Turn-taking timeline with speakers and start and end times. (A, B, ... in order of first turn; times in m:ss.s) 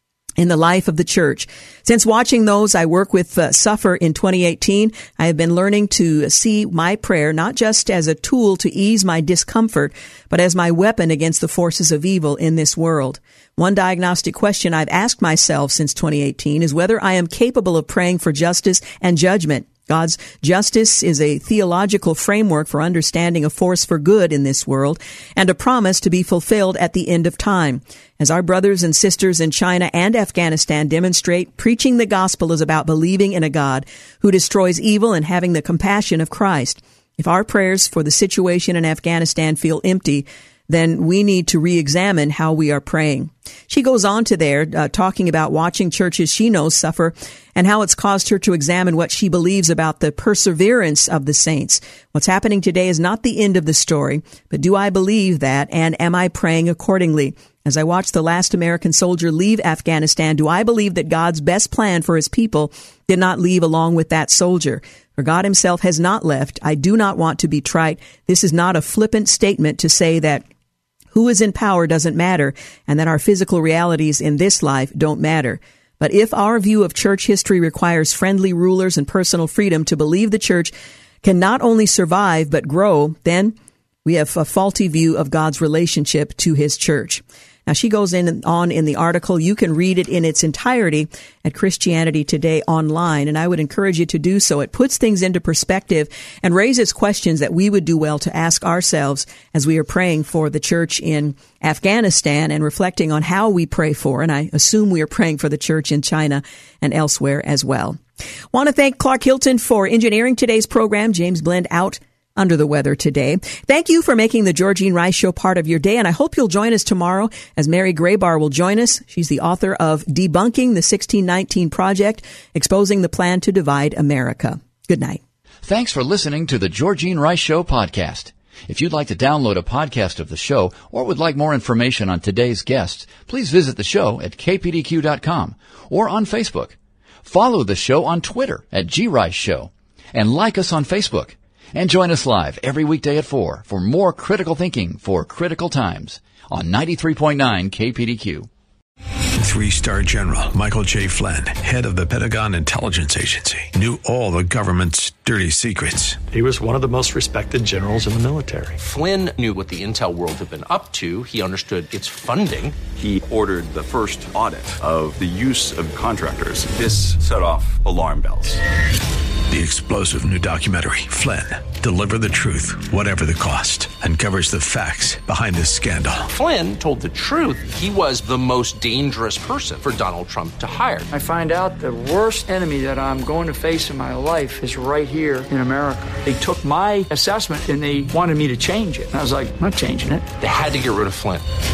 0:00.4-1:10.4 A
1:11.1-1:20.7 A
1:21.2-1:48.0 A
1:48.5-2:05.2 A
2:05.6-2:28.5 B
2:29.4-2:36.2 C
2:36.3-2:38.8 D
2:38.8-2:42.8 E
2:42.8-2:48.6 F
2:49.5-2:56.3 C
2:56.3-3:01.1 E
3:01.1-3:10.3 G
3:10.4-3:11.4 E